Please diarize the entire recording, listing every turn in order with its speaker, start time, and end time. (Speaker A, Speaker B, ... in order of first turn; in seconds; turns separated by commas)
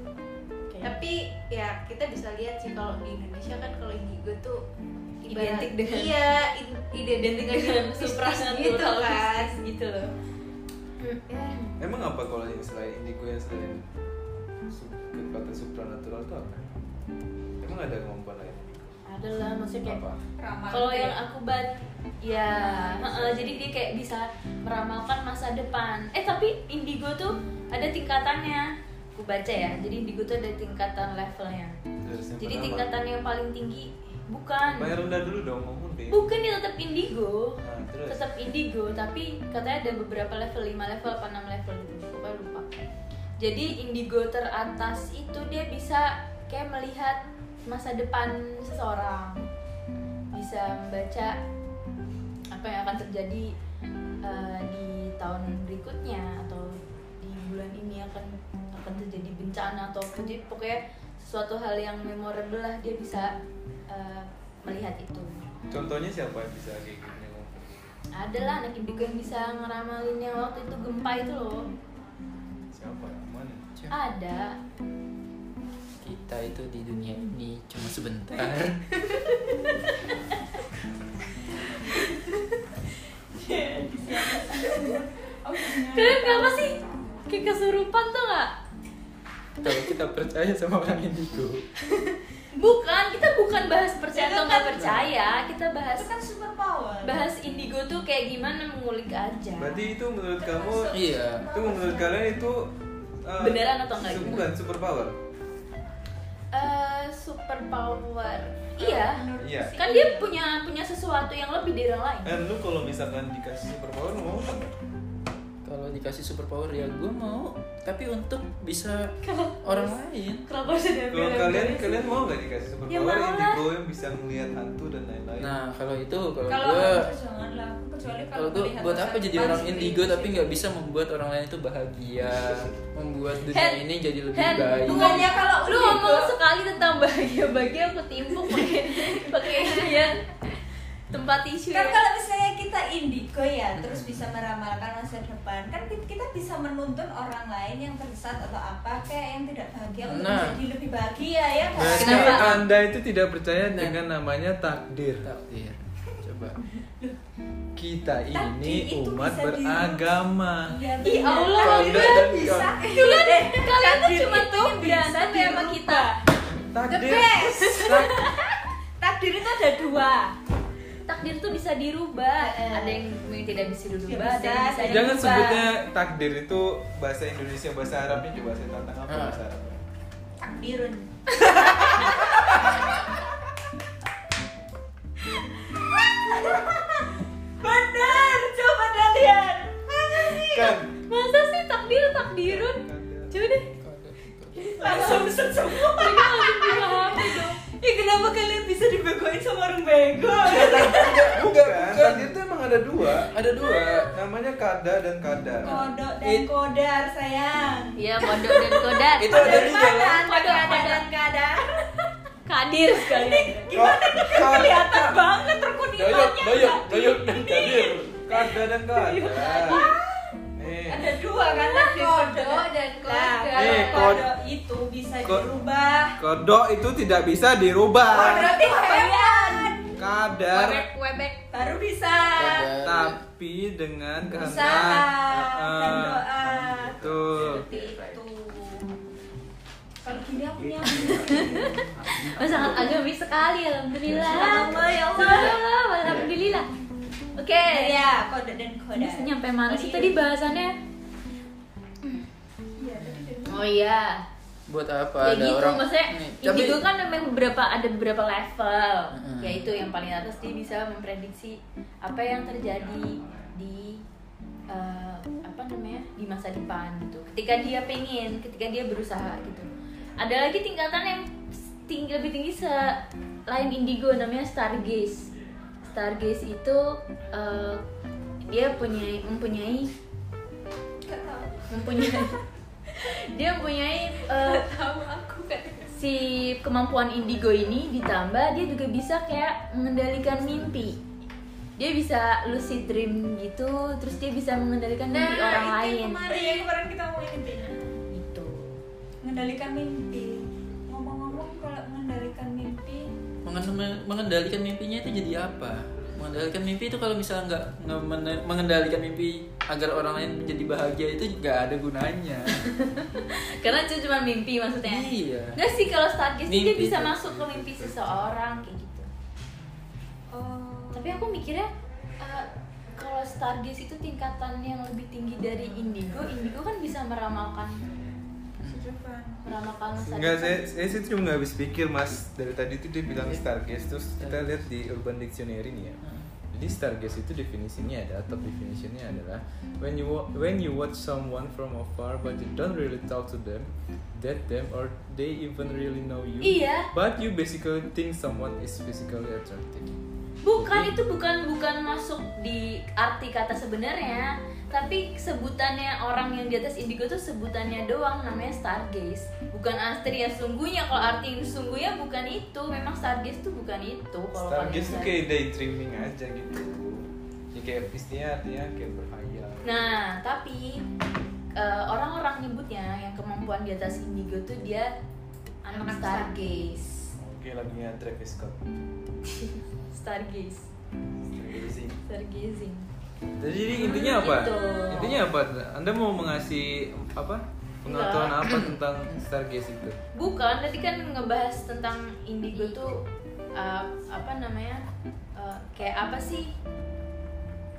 Speaker A: 0.7-1.0, Speaker B: 0.8-4.6, Speaker B: 5.2-9.5, Speaker A: 5.3-6.1, Speaker A: 7.2-10.1, Speaker A: 11.0-11.7, Speaker B: 11.3-11.6, Speaker C: 11.8-13.8, Speaker C: 14.7-16.6, Speaker C: 17.6-18.8, Speaker A: 19.1-20.0, Speaker C: 19.8-20.2, Speaker D: 20.4-21.2, Speaker A: 20.7-31.8, Speaker C: 23.0-23.6, Speaker C: 32.0-32.9, Speaker A: 32.4-34.9, Speaker C: 34.6-36.3, Speaker A: 36.1-42.7, Speaker C: 37.6-38.2, Speaker A: 43.4-49.5, Speaker A: 50.3-51.4, Speaker A: 52.5-53.5, Speaker A: 54.2-63.3, Speaker A: 63.9-65.3, Speaker C: 65.7-67.8, Speaker A: 68.2-71.6, Speaker C: 72.7-73.6, Speaker A: 73.9-74.5, Speaker E: 76.0-78.8, Speaker D: 83.3-86.7, Speaker A: 84.3-84.7, Speaker A: 85.9-88.5, Speaker E: 89.6-91.7, Speaker A: 92.5-96.1, Speaker D: 94.1-94.8, Speaker E: 94.8-95.1, Speaker D: 96.0-97.2, Speaker A: 97.0-99.8, Speaker C: 99.6-101.0, Speaker D: 100.4-102.2, Speaker E: 100.9-101.5, Speaker C: 101.5-105.1, Speaker A: 103.4-104.4, Speaker A: 106.5-109.2, Speaker D: 108.8-110.3, Speaker C: 109.4-109.8, Speaker A: 109.8-112.3, Speaker C: 112.2-114.7, Speaker E: 115.6-120.4, Speaker A: 119.2-119.9, Speaker A: 120.5-122.1, Speaker C: 121.1-125.5, Speaker A: 122.9-123.6, Speaker E: 125.4-127.1, Speaker D: 126.5-130.6, Speaker E: 128.3-135.3, Speaker A: 133.5-142.0, Speaker D: 134.8-136.3, Speaker D: 141.7-152.4, Speaker E: 143.8-144.2, Speaker E: 150.0-150.6, Speaker C: 151.8-155.3, Speaker E: 151.8-152.7, Speaker A: 152.0-152.5, Speaker E: 153.7-154.0, Speaker E: 155.2-156.6, Speaker C: 157.8-160.8, Speaker D: 158.3-160.1, Speaker D: 160.7-166.2, Speaker A: 161.0-162.3, Speaker E: 161.6-162.7, Speaker C: 161.8-162.6, Speaker A: 162.9-166.1, Speaker C: 166.5-168.3, Speaker D: 166.9-168.3, Speaker A: 167.9-168.3, Speaker D: 169.0-170.3, Speaker A: 171.1-175.7, Speaker D: 172.4-173.0, Speaker D: 174.0-175.6, Speaker C: 174.8-179.8, Speaker E: 179.1-179.4, Speaker D: 180.4-182.9, Speaker D: 185.7-190.8, Speaker C: 190.5-190.9, Speaker A: 191.1-193.7, Speaker C: 192.0-193.4, Speaker E: 193.8-194.7, Speaker D: 194.7-201.3, Speaker A: 194.8-195.3, Speaker A: 195.8-197.6, Speaker C: 200.4-205.9, Speaker E: 200.5-202.3, Speaker E: 203.2-204.1, Speaker D: 205.6-212.1, Speaker E: 206.2-206.5, Speaker A: 208.0-211.1, Speaker E: 209.2-210.2, Speaker C: 209.2-209.9, Speaker A: 212.5-213.7, Speaker D: 212.9-220.3, Speaker C: 213.7-215.2, Speaker E: 215.9-218.0, Speaker C: 218.1-219.8, Speaker C: 220.6-221.1, Speaker D: 220.9-226.2, Speaker B: 221.3-224.2, Speaker C: 223.5-224.3, Speaker C: 226.2-228.5, Speaker B: 228.1-229.7, Speaker D: 228.1-229.9, Speaker C: 229.9-230.9, Speaker D: 230.5-232.7, Speaker E: 232.3-233.2, Speaker C: 232.7-238.0, Speaker D: 234.3-238.8, Speaker D: 240.0-241.8, Speaker A: 241.0-246.7, Speaker C: 242.1-242.6, Speaker C: 244.1-244.9, Speaker D: 244.2-245.6, Speaker E: 246.0-246.3, Speaker A: 247.4-248.0, Speaker D: 247.7-250.2, Speaker A: 248.9-250.8, Speaker D: 252.8-253.7, Speaker E: 253.0-253.3, Speaker A: 253.4-254.2, Speaker E: 254.7-256.8, Speaker A: 255.2-264.0, Speaker E: 259.1-259.7, Speaker A: 264.7-269.7, Speaker A: 270.2-271.3, Speaker A: 271.8-275.3, Speaker A: 275.9-277.8, Speaker A: 278.4-279.9, Speaker D: 281.1-282.2, Speaker A: 281.7-282.4, Speaker A: 283.0-284.6, Speaker B: 284.6-285.9, Speaker D: 284.7-285.5, Speaker A: 285.9-291.0, Speaker A: 291.8-296.2, Speaker B: 295.1-296.7, Speaker D: 296.2-297.8, Speaker A: 298.1-298.8, Speaker D: 299.2-303.1, Speaker E: 303.4-312.6, Speaker A: 312.7-319.1, Speaker E: 314.8-315.6, Speaker E: 316.5-317.2, Speaker C: 317.2-318.5, Speaker D: 320.3-321.2, Speaker A: 320.9-327.8, Speaker E: 328.6-328.9, Speaker D: 328.6-329.4, Speaker A: 329.4-330.6, Speaker C: 330.1-350.0, Speaker E: 334.2-334.4, Speaker E: 336.0-336.3, Speaker A: 346.4-346.9, Speaker A: 350.4-365.2, Speaker C: 350.5-350.9, Speaker C: 364.3-369.9, Speaker A: 369.6-370.8, Speaker A: 371.6-374.9, Speaker A: 375.6-377.1, Speaker B: 375.7-376.5, Speaker C: 377.2-378.6, Speaker A: 379.3-380.7, Speaker C: 381.2-382.0, Speaker A: 382.1-382.9, Speaker C: 383.4-390.0, Speaker A: 383.7-385.2, Speaker A: 387.9-388.4, Speaker E: 388.4-389.2, Speaker A: 390.1-393.0, Speaker A: 393.6-394.8, Speaker A: 395.4-396.5